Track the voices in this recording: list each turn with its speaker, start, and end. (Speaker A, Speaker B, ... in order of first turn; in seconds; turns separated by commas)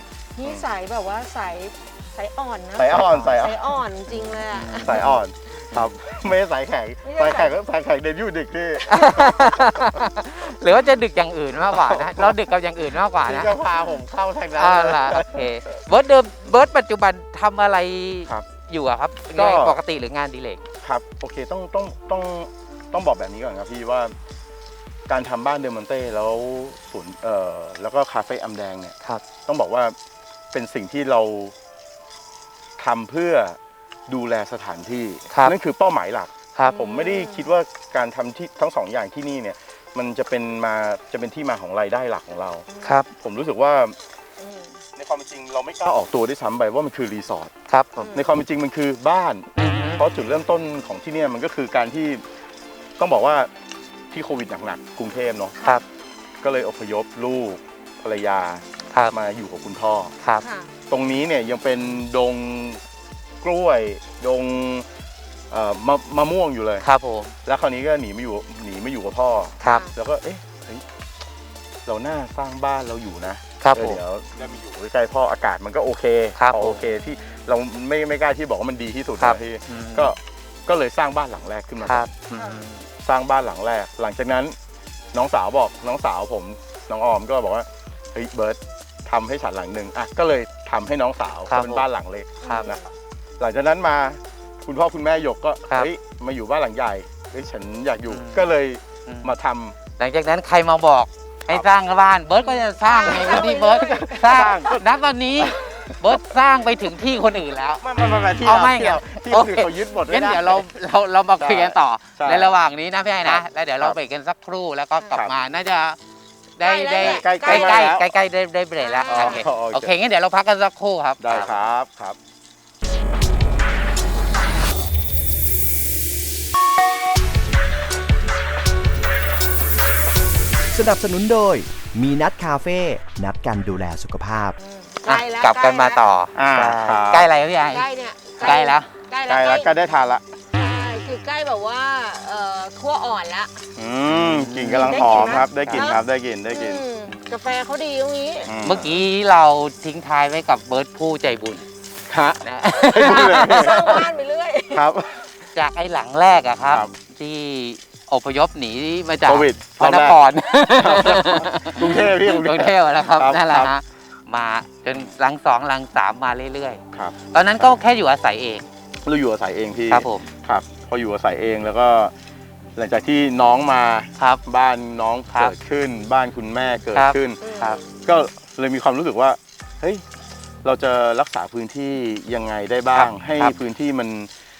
Speaker A: 0.3-5.0, Speaker B: 2.7-3.8, Speaker C: 2.9-3.3, Speaker C: 4.5-5.2, Speaker B: 4.8-10.0, Speaker A: 7.0-7.5, Speaker C: 8.8-13.5, Speaker A: 8.9-9.3, Speaker B: 11.7-12.4, Speaker B: 13.2-15.8, Speaker C: 14.5-20.6, Speaker B: 19.4-19.8, Speaker B: 20.8-24.1, Speaker B: 25.1-29.9, Speaker B: 30.5-31.5, Speaker B: 32.8-44.0, Speaker A: 36.7-37.5, Speaker A: 42.7-43.0, Speaker C: 42.8-43.1, Speaker A: 44.4-44.8, Speaker B: 45.0-47.5, Speaker C: 47.7-48.0, Speaker A: 48.0-48.3, Speaker B: 48.1-52.2, Speaker C: 49.6-50.0, Speaker B: 53.0-53.5, Speaker B: 54.1-55.6, Speaker A: 55.6-55.8, Speaker B: 56.4-60.1, Speaker A: 60.4-60.7, Speaker B: 60.9-62.8, Speaker B: 63.4-64.8, Speaker B: 65.5-66.8, Speaker C: 66.8-67.3, Speaker B: 67.4-70.8, Speaker C: 69.6-69.9, Speaker A: 69.6-69.9, Speaker B: 71.9-82.2, Speaker C: 73.6-74.0, Speaker C: 76.4-76.8, Speaker C: 79.2-80.1, Speaker C: 81.8-82.8, Speaker A: 82.3-82.6, Speaker B: 83.0-84.5, Speaker B: 85.1-92.8, Speaker C: 91.5-91.8, Speaker C: 92.4-92.7, Speaker A: 92.4-92.9, Speaker B: 93.4-99.8, Speaker C: 98.1-98.5, Speaker C: 100.0-107.8, Speaker A: 102.4-104.5, Speaker B: 103.0-104.8, Speaker B: 105.4-106.2, Speaker B: 107.8-110.7, Speaker C: 108.4-116.0, Speaker B: 111.4-112.5, Speaker B: 113.2-114.0, Speaker C: 116.6-121.6, Speaker A: 116.6-117.9, Speaker B: 117.0-118.1, Speaker A: 118.8-119.5, Speaker B: 119.1-119.9, Speaker B: 121.2-122.2, Speaker D: 130.7-134.6, Speaker A: 134.6-136.0, Speaker C: 135.1-137.8, Speaker B: 136.3-137.3, Speaker A: 137.7-139.7, Speaker B: 138.4-138.6, Speaker C: 138.4-138.9, Speaker B: 139.3-140.2, Speaker A: 140.5-143.6, Speaker B: 143.8-146.8, Speaker C: 144.1-145.9, Speaker A: 144.8-148.6, Speaker B: 148.4-149.0, Speaker C: 148.6-151.7, Speaker B: 152.1-154.1, Speaker C: 152.4-154.0, Speaker A: 153.0-154.8, Speaker B: 154.7-155.3, Speaker C: 155.5-168.6, Speaker B: 159.3-160.2, Speaker B: 160.8-163.7, Speaker B: 166.9-167.7, Speaker B: 169.0-172.1, Speaker C: 169.9-170.3, Speaker B: 172.8-177.4, Speaker C: 176.9-177.8, Speaker A: 177.4-177.9, Speaker B: 178.0-180.0, Speaker B: 180.6-184.3, Speaker C: 182.9-183.5